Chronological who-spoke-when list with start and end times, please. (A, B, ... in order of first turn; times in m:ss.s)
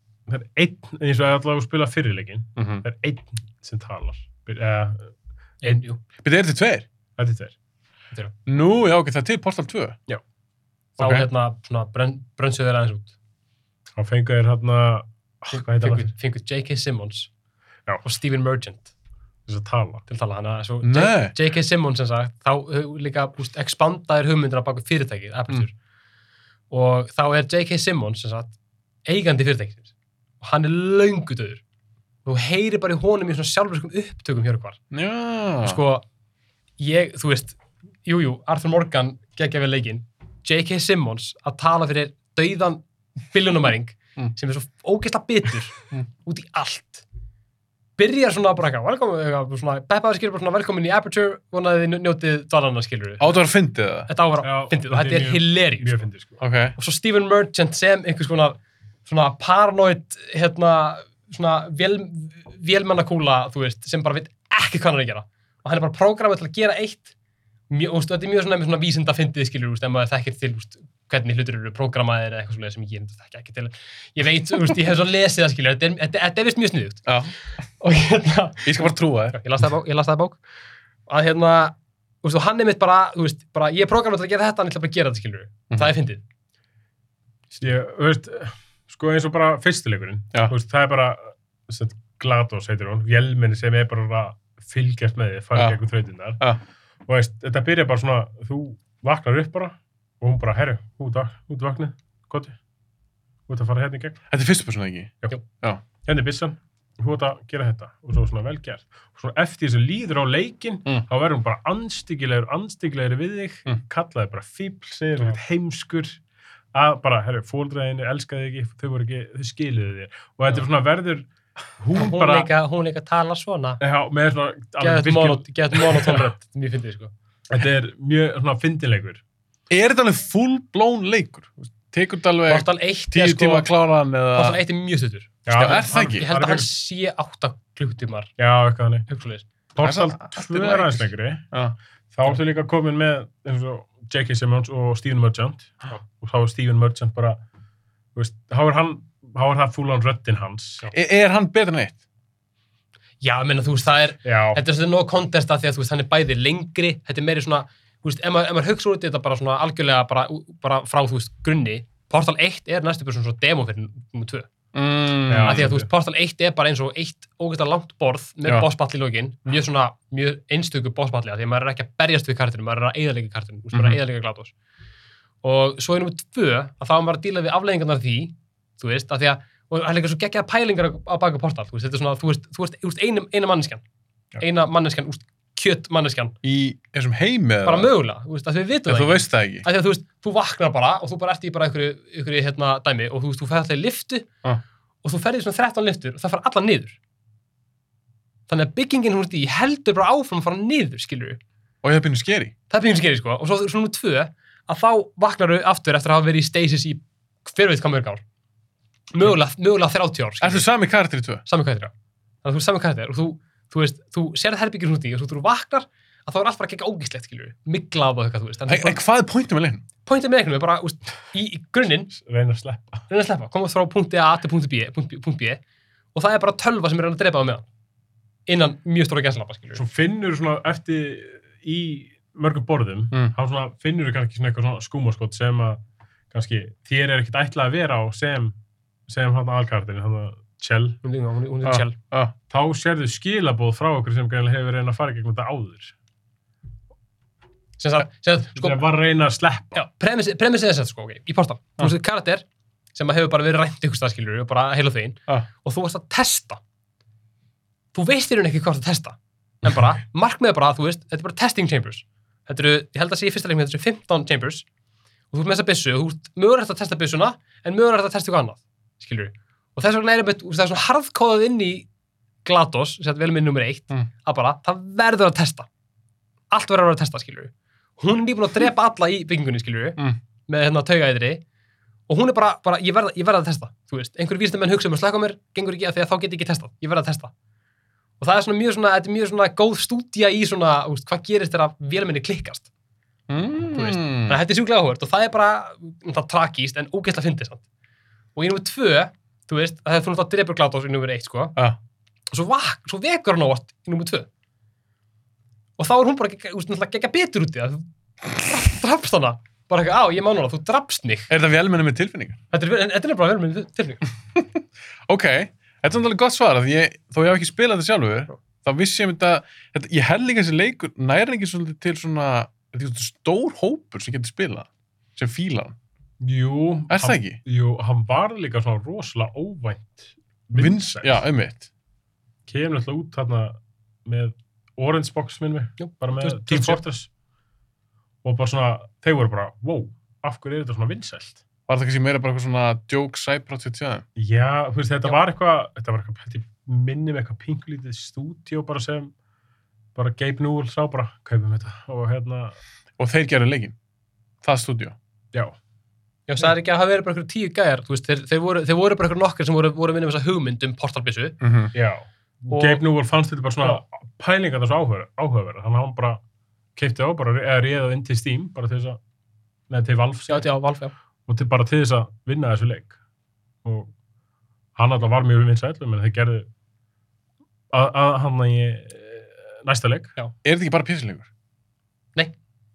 0:00.3-0:05.1 A
0:02.6-0:02.8 B
0:05.6-0:06.0 C
0:06.2-0:06.9 B
0:07.2-0:07.5 A
0:08.4-0:10.0 B
0:11.0-0:13.1 C
0:11.0-0:11.3 B
0:14.0-0:16.1 A
0:15.5-0:17.3 C
0:18.0-0:18.9 C
0:19.5-0:20.0 A
0:20.1-0:25.7 C
0:20.8-0:21.3 B
0:26.7-0:28.5 C
0:29.0-0:29.9 C
0:30.4-0:31.6 C
0:32.2-0:34.8 C
0:34.9-0:35.8 B
0:35.6-0:36.0 C
0:36.8-0:47.0 C
0:48.0-0:53.4 C
0:53.2-0:54.1 B
0:54.1-0:56.0 C
0:54.4-0:56.4 A
0:56.4-0:56.8 B
0:56.8-1:07.1 C
1:07.7-1:17.1 C
1:17.0-1:17.3 B
1:17.8-1:20.4 C
1:18.6-1:19.4 B
1:21.1-1:26.2 C
1:27.6-1:36.4 A
1:35.5-1:35.8 B
1:37.0-1:42.6 A
1:43.5-1:44.2 A
1:44.3-1:45.8 B
1:46.0-1:56.2 A
1:56.7-2:02.5 A
2:01.9-2:03.8 C
2:03.8-2:06.2 A
2:04.8-2:07.1 C
2:07.5-2:09.2 A
2:09.7-2:14.6 B
2:12.5-2:13.7 C
2:14.3-2:18.3 C
2:15.4-2:16.7 A
2:15.5-2:16.3 B
2:18.4-2:19.1 A
2:19.1-2:19.4 C
2:19.7-2:21.4 A
2:19.8-2:21.8 B
2:22.1-2:27.4 A
2:28.1-2:30.9 A
2:30.9-2:32.0 B
2:33.2-2:44.5 C
2:34.2-2:34.6 A
2:44.7-2:45.7 B
2:45.3-2:45.9 A
2:45.4-2:54.5 C
2:53.7-2:54.0 B
2:55.4-3:03.8 C
3:04.4-3:06.4 C
3:06.4-3:07.9 B
3:07.6-3:14.3 C
3:08.9-3:09.6 B
3:15.0-3:17.0 C
3:18.5-3:21.4 C
3:21.8-3:22.5 B
3:22.7-3:28.2 C
3:29.1-3:30.6 C
3:30.4-3:31.4 B
3:31.4-3:31.9 C
3:32.4-3:39.0 C
3:38.7-3:39.8 B
3:40.0-3:42.1 C
3:42.1-3:43.0 A
3:43.1-3:45.6 C
3:46.1-3:47.6 C
3:48.5-3:49.8 C
3:49.7-3:58.6 A
3:59.1-4:01.0 A
4:01.0-4:01.9 C
4:01.6-4:02.3 B
4:02.5-4:05.9 A
4:07.8-4:08.8 C
4:08.6-4:09.8 A
4:09.7-4:12.4 C
4:12.9-4:16.6 C
4:17.9-4:24.6 C
4:25.3-4:31.9 C
4:32.4-4:35.7 C
4:36.5-4:41.4 C
4:42.1-4:47.3 C
4:48.2-4:52.7 C
4:53.3-4:54.4 B
4:53.7-4:57.6 C
4:58.3-5:01.6 C
5:02.3-5:04.3 C
5:05.8-5:11.3 C
5:11.3-5:12.4 B
5:12.5-5:14.0 C
5:15.1-5:25.8 B
5:26.2-5:31.2 A
5:26.9-5:27.4 B
5:30.5-5:31.7 B
5:32.5-5:37.1 A
5:35.8-5:36.8 C
5:38.2-5:41.4 A
5:41.7-5:44.0 B
5:44.2-5:49.1 A
5:49.9-5:52.6 A
5:53.0-5:53.8 B
5:54.4-5:55.0 B
5:56.3-6:01.4 C
6:01.4-6:01.7 B
6:01.7-6:06.2 A
6:02.5-6:02.8 C
6:06.8-6:09.0 A
6:09.7-6:10.5 A
6:10.3-6:10.9 C
6:11.3-6:13.0 A
6:13.6-6:13.9 A
6:14.8-6:16.5 A
6:17.7-6:20.1 A
6:20.4-6:21.3 B